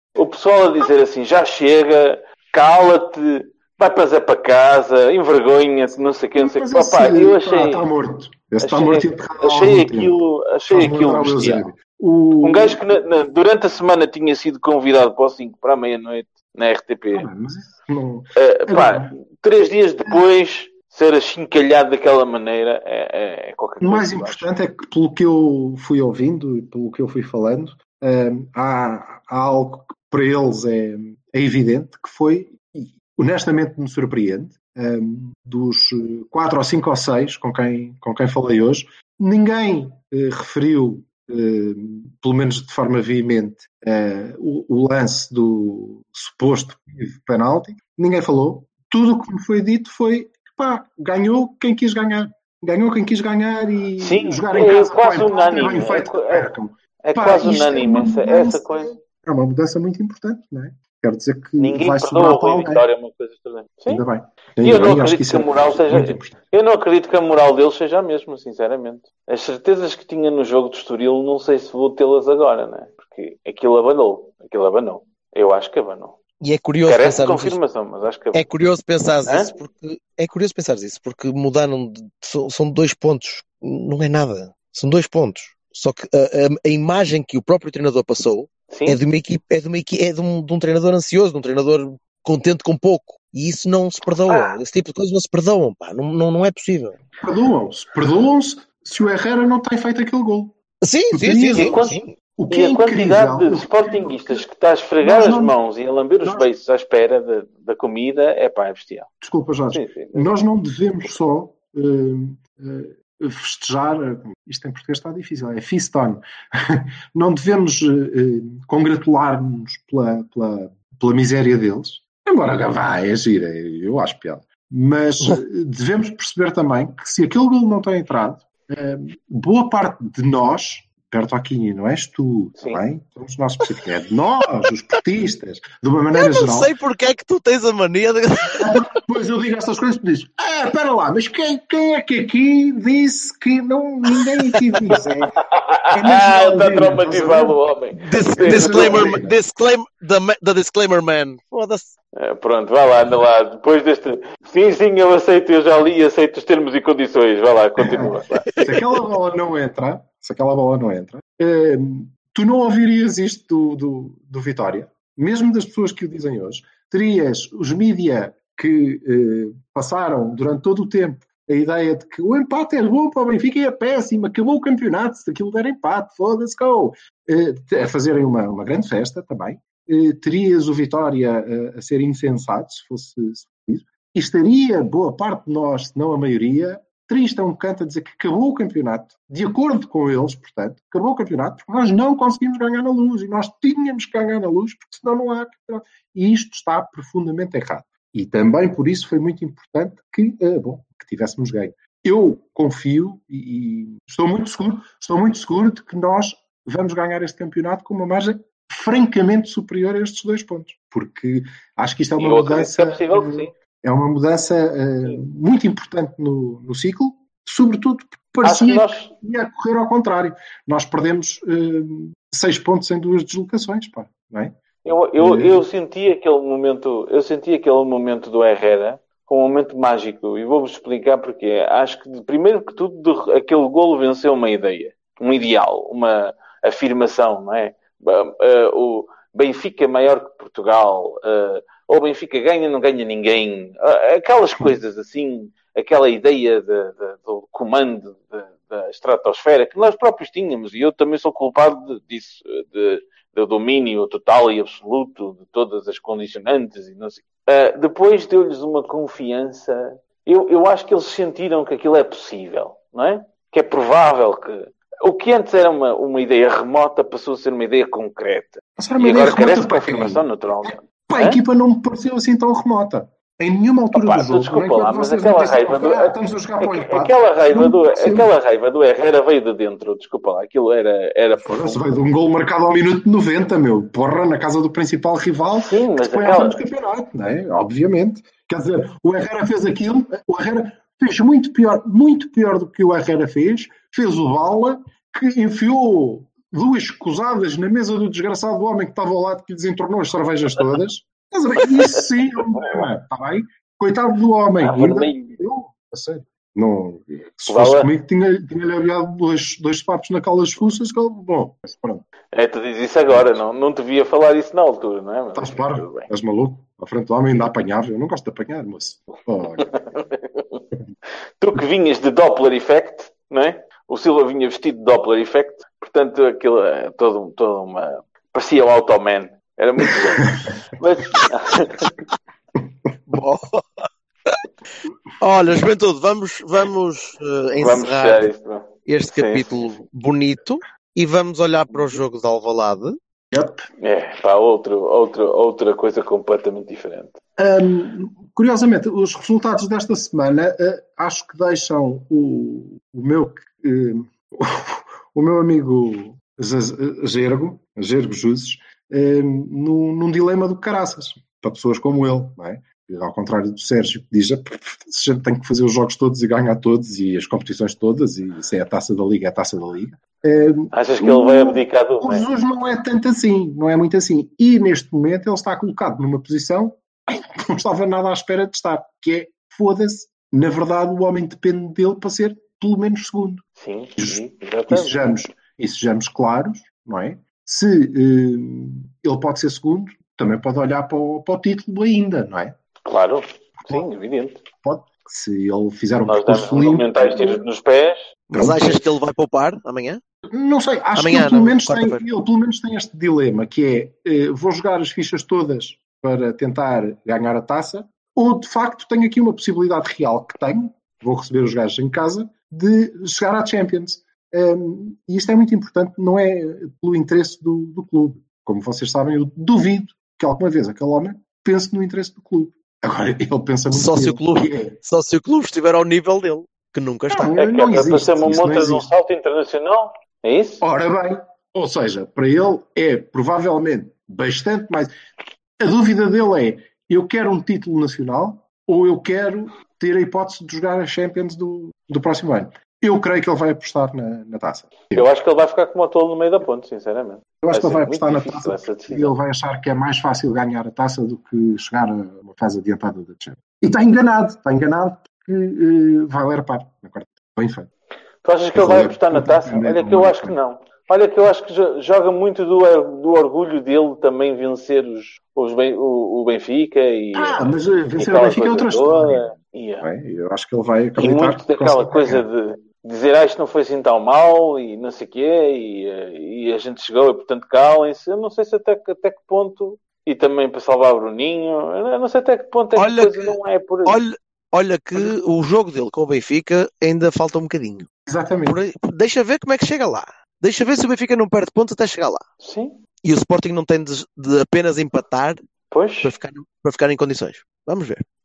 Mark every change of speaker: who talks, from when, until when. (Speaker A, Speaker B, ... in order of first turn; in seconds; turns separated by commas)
Speaker A: 0.1-7.8, Speaker B: 6.3-10.2, Speaker A: 8.6-11.6, Speaker B: 10.7-12.8, Speaker A: 12.4-17.3, Speaker B: 17.1-19.1, Speaker A: 18.3-24.4, Speaker B: 23.8-62.8, Speaker A: 54.0-58.9, Speaker A: 61.6-64.0, Speaker B: 63.9-66.5, Speaker A: 64.6-76.2, Speaker C: 76.4-77.6, Speaker A: 76.8-78.5, Speaker C: 78.3-97.0, Speaker A: 88.7-89.0, Speaker A: 94.3-94.5, Speaker B: 97.2-100.5, Speaker C: 100.8-102.1, Speaker B: 101.1-101.8, Speaker A: 101.5-109.1, Speaker B: 102.4-104.4, Speaker B: 105.0-105.5, Speaker B: 106.2-106.5, Speaker B: 109.2-136.7, Speaker A: 109.7-110.3, Speaker C: 136.1-138.8, Speaker B: 138.6-145.3, Speaker A: 145.3-149.1, Speaker B: 145.9-147.6, Speaker C: 148.0-151.9, Speaker B: 148.4-149.4, Speaker A: 152.2-158.5, Speaker B: 157.8-224.6, Speaker A: 212.2-213.5, Speaker A: 218.4-219.1, Speaker A: 224.8-271.4, Speaker B: 225.2-225.6, Speaker B: 268.8-278.3, Speaker A: 273.9-281.8, Speaker B: 281.4-312.1, Speaker A: 285.6-286.6, Speaker A: 302.5-302.9, Speaker A: 304.6-305.4, Speaker A: 307.5-307.9, Speaker A: 312.3-316.1, Speaker B: 313.1-313.4, Speaker B: 315.3-319.7, Speaker A: 319.6-320.6, Speaker A: 321.4-331.9, Speaker C: 333.1-334.4, Speaker C: 335.2-338.3, Speaker A: 337.6-339.6, Speaker C: 338.9-342.9, Speaker B: 343.3-343.7, Speaker A: 343.8-347.2, Speaker B: 347.4-383.4, Speaker A: 370.7-372.3, Speaker A: 383.6-385.1, Speaker B: 384.0-392.6, Speaker A: 392.9-394.4, Speaker B: 393.6-393.9, Speaker B: 394.6-397.4, Speaker A: 396.1-398.1, Speaker C: 398.3-400.0, Speaker B: 398.3-398.8, Speaker B: 400.3-424.8, Speaker C: 400.9-402.0, Speaker C: 423.7-427.3, Speaker B: 427.1-428.9, Speaker A: 427.4-430.6, Speaker B: 430.6-434.9, Speaker B: 435.6-445.1, Speaker A: 444.9-449.1, Speaker B: 447.4-457.7, Speaker A: 458.2-469.9, Speaker B: 458.5-460.4, Speaker B: 467.1-469.3, Speaker B: 469.8-472.2, Speaker A: 471.0-484.0, Speaker C: 482.8-487.9, Speaker B: 488.1-488.6, Speaker C: 488.4-492.2, Speaker A: 492.4-492.8, Speaker C: 493.0-495.4, Speaker A: 495.7-496.1, Speaker C: 496.0-498.0